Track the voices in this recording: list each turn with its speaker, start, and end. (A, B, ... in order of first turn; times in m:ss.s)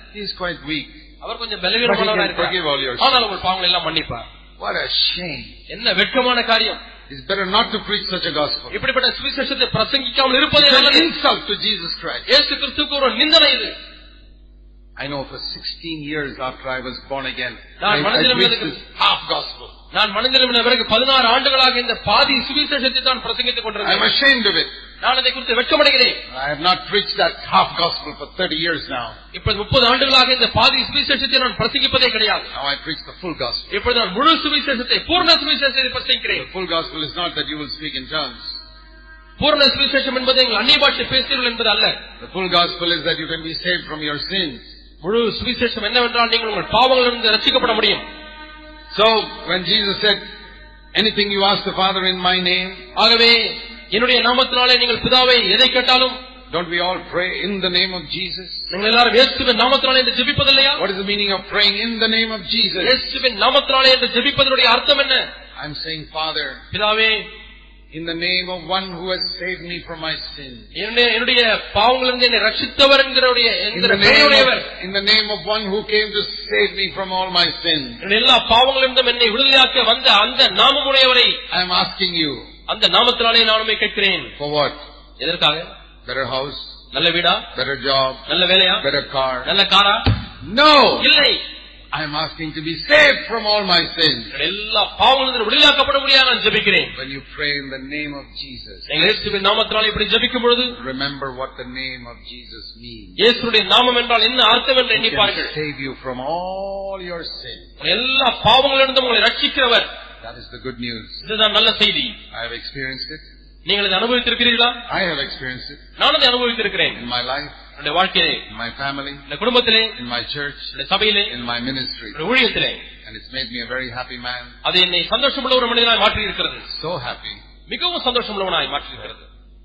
0:00.1-0:01.0 A
0:01.2-0:04.3 B
0:01.8-0:03.3 A
0:04.6-0:05.5 A
0:05.7-0:06.8 B
0:07.1-0:08.8 A
0:08.7-0:11.1 B
0:10.5-0:12.3 A
0:12.3-0:13.7 B
0:15.0-0:19.7 A
0:17.8-0:18.8 B
0:19.9-0:24.1 B
0:23.8-0:24.7 A
0:25.0-0:26.2 B
0:26.3-0:29.2 A
0:29.3-0:32.5 B
0:32.5-0:33.8 A
0:33.7-0:36.5 B
0:36.3-0:38.6 A
0:39.4-0:42.0 B
0:42.2-0:44.6 A
0:45.0-0:48.0 B
0:48.9-0:50.2 A
0:51.0-0:52.9 A
0:53.0-0:56.2 B
0:56.5-0:58.7 A
0:58.7-1:00.8 B
1:00.8-1:03.0 A
1:02.8-1:05.2 B
1:05.6-1:06.6 A
1:06.7-1:07.3 B
1:07.9-1:10.7 A
1:10.8-1:14.7 B
1:13.7-1:18.0 A
1:18.0-1:21.4 B
1:21.5-1:22.4 A
1:22.7-1:24.3 B
1:24.4-1:24.8 A
1:25.2-1:25.7 B
1:26.1-1:26.7 A
1:26.9-1:27.5 B
1:27.6-1:28.2 A
1:28.3-1:28.9 B
1:28.8-1:29.5 A
1:29.4-1:30.1 B
1:30.4-1:31.1 A
1:31.0-1:31.4 B
1:31.9-1:34.3 A
1:34.3-1:36.9 B
1:36.9-1:39.2 A
1:38.9-1:40.8 B
1:40.7-1:43.2 A
1:43.2-1:45.5 B
1:44.9-1:47.7 A
1:47.8-1:49.9 B
1:50.2-1:51.2 A
1:51.2-1:52.2 B
1:52.3-1:53.2 A
1:53.7-1:54.8 B
1:54.9-1:55.8 A
1:56.0-1:57.0 B
1:56.9-1:57.6 A
1:57.8-1:58.4 B
1:58.5-1:59.2 A
1:59.3-1:59.9 B
2:00.0-2:02.2 A
2:00.8-2:01.3 B
2:02.2-2:02.8 B
2:03.0-2:04.6 A
2:04.6-2:06.7 B
2:06.7-2:07.4 A
2:07.7-2:09.3 B